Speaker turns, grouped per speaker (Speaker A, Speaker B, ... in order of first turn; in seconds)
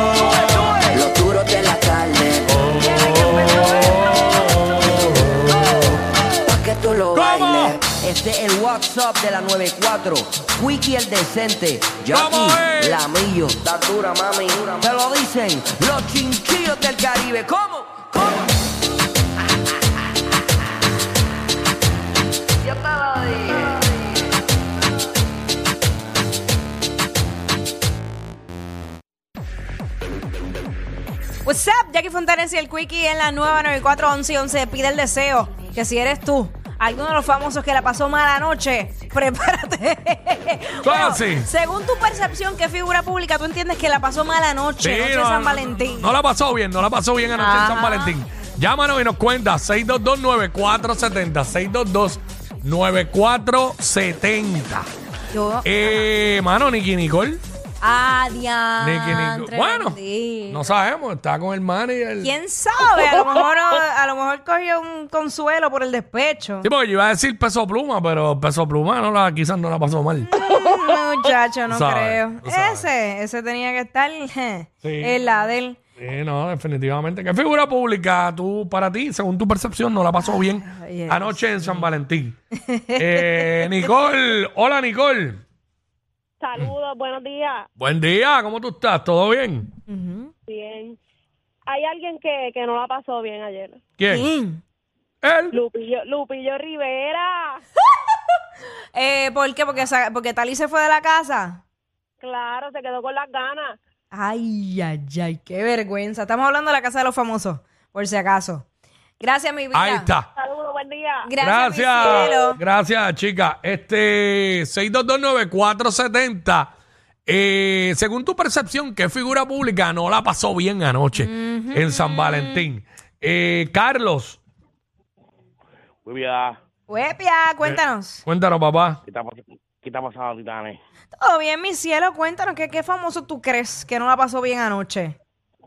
Speaker A: 0.1-3.9, 6.4-18.5, 22.6-23.7
Speaker B: 2.5-5.9, 7.1-7.8, 12.1-13.1, 40.8-41.5, 44.8-54.9, 55.6-57.4, 58.8-62.3, 66.6-70.3, 71.7-72.9, 74.8-75.2, 76.0-82.3, 83.0-85.4, 87.8-89.7, 94.0-94.3, 95.2-95.6, 109.7-110.3, 111.4-116.7, 117.3-124.4, 127.6-129.0
Speaker C: 31.4-46.1, 47.3-48.1, 55.3-55.7, 57.8-60.6, 62.2-66.7, 70.2-75.8, 80.2-81.9, 82.5-83.8, 89.9-90.3, 94.1-94.6, 98.9-101.6, 104.1-108.6, 109.2-110.1, 111.2-112.6, 121.1-122.6, 126.9-128.2, 131.2-135.1
Speaker D: 86.4-87.7, 90.5-91.0, 91.7-93.8, 95.5-97.6, 102.2-103.8, 110.3-111.3, 112.0-112.5
Speaker E: 126.0-126.6, 129.1-130.8